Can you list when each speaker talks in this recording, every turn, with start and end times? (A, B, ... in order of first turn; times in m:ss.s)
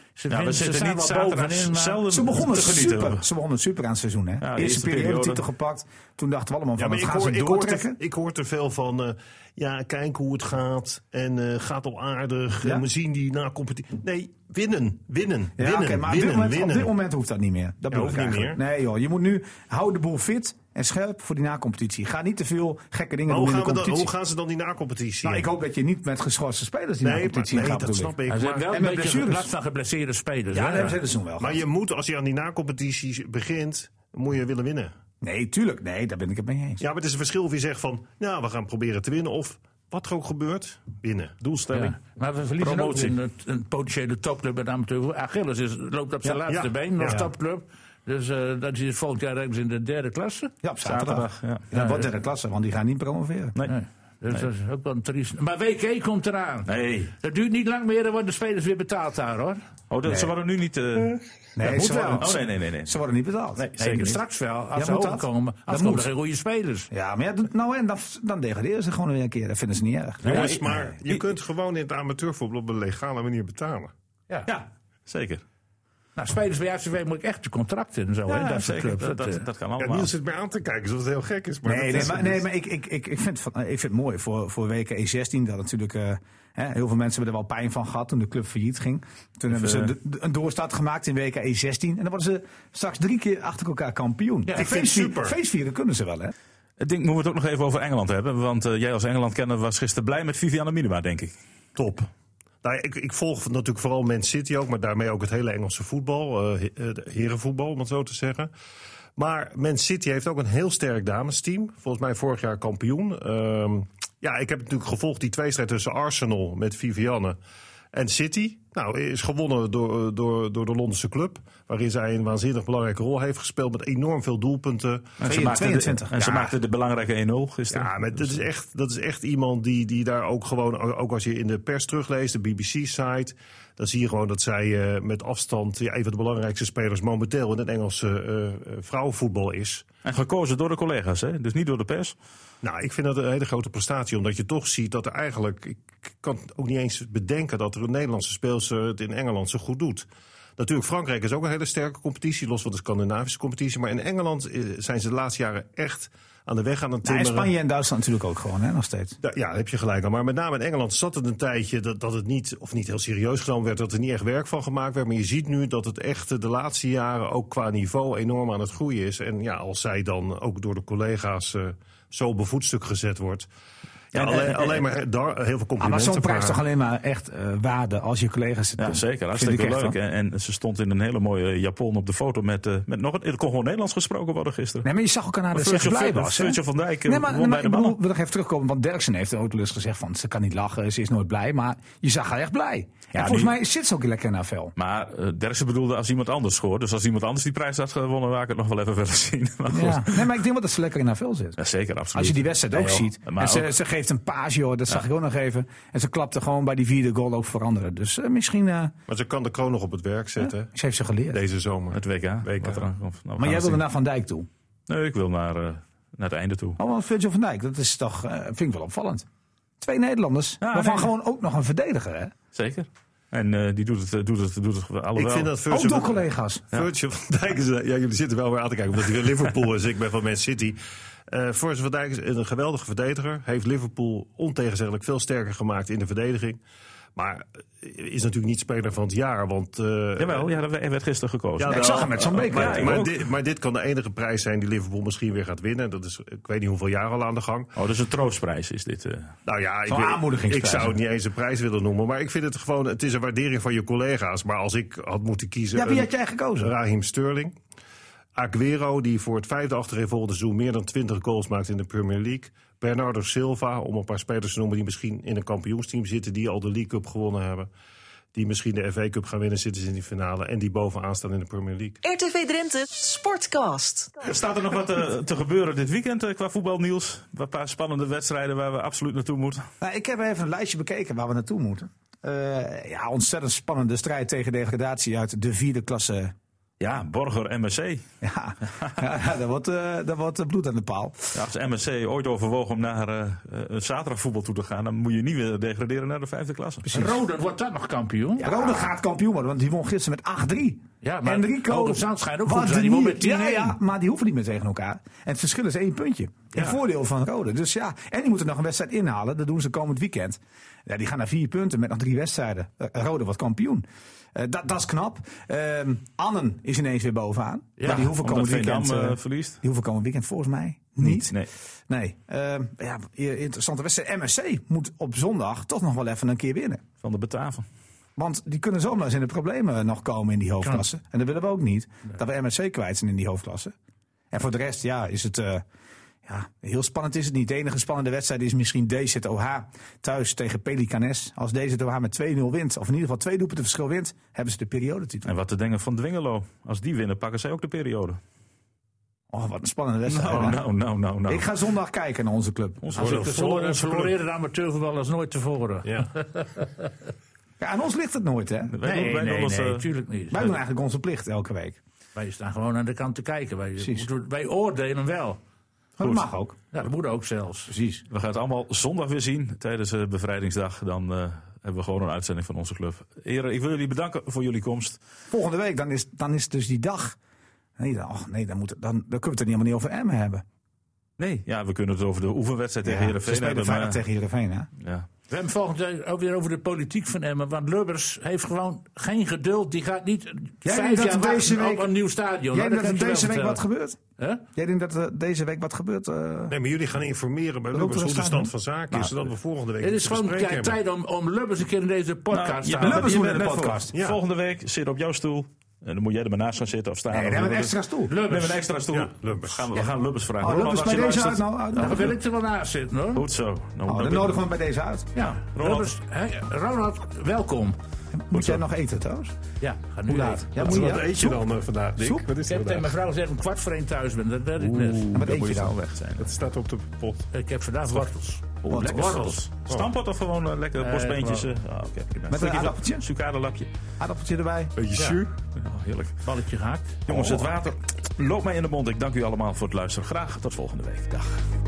0:00.2-0:02.0 A
0:00.3-0:03.2 B
0:02.1-0:08.0 C
0:04.4-0:05.4 B
0:06.8-0:16.9 D
0:15.6-0:24.1 C
0:17.9-0:18.6 D
0:23.3-0:25.5 D
0:25.2-0:28.1 C
0:27.0-0:28.8 D
0:28.3-0:31.0 A
0:28.7-0:29.5 C
0:30.5-0:31.6 C
0:31.4-0:34.9 D
0:35.2-0:36.8 C
0:36.8-0:41.4 D
0:41.4-0:42.0 B
0:41.7-0:50.5 A
0:42.6-0:43.2 B
0:46.5-0:47.3 D
0:50.6-0:53.6 C
0:50.8-0:51.6 B
0:51.7-0:52.1 A
0:53.6-0:59.6 A
0:56.6-0:57.1 B
0:59.9-1:01.2 B
1:00.0-1:00.3 C
1:01.6-1:03.6 C
1:01.6-1:02.2 A
1:01.8-1:02.9 B
1:03.6-1:04.2 B
1:03.8-1:06.9 A
1:04.7-1:06.1 C
1:06.9-1:10.9 C
1:10.2-1:13.9 D
1:10.2-1:11.2 B
1:14.4-1:15.4 B
1:16.2-1:19.5 A
1:18.3-1:20.1 B
1:19.8-1:22.4 D
1:21.6-1:36.3 C
1:29.5-1:29.9 B
1:34.5-1:34.8 A
1:34.5-1:35.4 D
1:36.8-1:41.3 B
1:41.8-1:42.1 D
1:42.6-1:48.5 D
1:49.2-1:57.4 D
1:57.9-2:05.3 D
2:05.2-2:08.4 B
2:05.2-2:06.6 C
2:07.7-2:19.8 D
2:20.0-2:22.2 B
2:22.6-2:37.5 D
2:37.0-2:39.2 C
2:39.2-2:53.5 D
2:54.1-2:56.6 D
2:54.1-2:54.8 B
2:55.8-3:00.0 C
2:58.8-3:04.9 B
3:04.8-3:14.7 C
3:05.5-3:08.0 B
3:13.1-3:13.5 B
3:14.8-3:20.3 B
3:19.7-3:21.6 C
3:21.6-3:23.7 B
3:22.1-3:28.9 C
3:29.1-3:30.7 D
3:30.4-3:31.4 C
3:31.3-3:32.9 D
3:31.9-3:33.8 B
3:33.4-3:34.5 C
3:34.9-3:36.8 B
3:36.8-3:39.2 C
3:39.8-3:42.3 C
3:40.6-3:41.1 B
3:42.5-3:45.5 B
3:45.1-3:46.2 D
3:45.7-3:46.7 C
3:46.7-3:50.8 D
3:51.3-3:56.6 D
3:57.2-4:00.5 D
4:00.2-4:03.1 B
4:01.6-4:07.7 D
4:01.6-4:03.0 C
4:07.8-4:09.3 B
4:09.4-4:17.5 D
4:09.9-4:11.0 C
4:15.7-4:16.7 C
4:18.3-4:27.7 D
4:28.3-4:32.0 D
4:32.0-4:34.2 E
4:34.2-4:39.6 B
4:39.8-4:46.3 C
4:46.8-4:48.0 B
4:48.2-4:51.4 C
4:51.3-4:56.9 B
4:56.8-4:57.2 C
4:56.9-4:58.5 A
4:58.4-5:21.3 C
5:01.0-5:03.8 A
5:17.8-5:18.0 A
5:17.8-5:19.6 B
5:21.0-5:21.5 B
5:21.9-5:26.8 C
5:27.0-5:27.6 B
5:28.2-5:33.7 C
5:34.3-5:35.6 C
5:36.2-5:45.3 C
5:45.2-5:48.2 B
5:49.3-5:50.6 C
5:50.1-5:51.4 B
5:51.3-5:53.0 C
5:52.8-5:53.2 B
5:52.9-5:54.2 D
5:52.9-5:56.9 A
5:57.6-5:59.2 C
5:58.7-5:59.9 B
5:58.8-6:00.5 A
6:00.3-6:01.8 C
6:02.2-6:05.4 A
6:03.8-6:04.1 C
6:06.0-6:06.6 C
6:06.7-6:07.7 A
6:07.7-6:08.0 C
6:08.1-6:15.0 B
6:15.3-6:17.2 C
6:17.8-6:20.4 C
6:21.2-6:24.0 B
6:22.8-6:24.7 C
6:24.8-6:25.1 B
6:25.3-6:33.6 A
6:30.6-6:31.9 C
6:32.5-6:34.0 C
6:34.2-6:34.4 A
6:34.5-6:36.5 C
6:36.5-6:40.8 D
6:37.7-6:39.0 C
6:39.8-6:43.2 A
6:42.3-6:52.0 B
6:42.8-6:43.9 C
6:43.9-6:44.2 D
6:47.1-6:48.2 C
6:48.1-6:48.6 A
6:48.9-6:49.7 D
6:50.4-6:52.2 C
6:51.7-6:53.2 A
6:53.1-6:54.4 B
6:53.8-6:55.1 C
6:55.1-6:57.8 A
6:55.2-6:55.9 B
6:58.1-6:59.4 C
6:58.3-6:58.6 B
6:59.6-7:01.0 A
7:00.1-7:01.4 C
7:00.6-7:02.9 D
7:02.0-7:02.2 C
7:02.4-7:05.2 A
7:04.6-7:06.3 B
7:05.1-7:05.7 C
7:06.2-7:07.3 D
7:07.3-7:08.4 A
7:08.6-7:13.7 B
7:08.7-7:09.4 C
7:08.8-7:09.9 D
7:10.8-7:11.5 A
7:12.3-7:13.1 C
7:14.0-7:14.7 C
7:14.8-7:15.3 D
7:15.5-7:16.2 B
7:16.2-7:17.0 A
7:17.0-7:21.3 B
7:17.1-7:17.5 C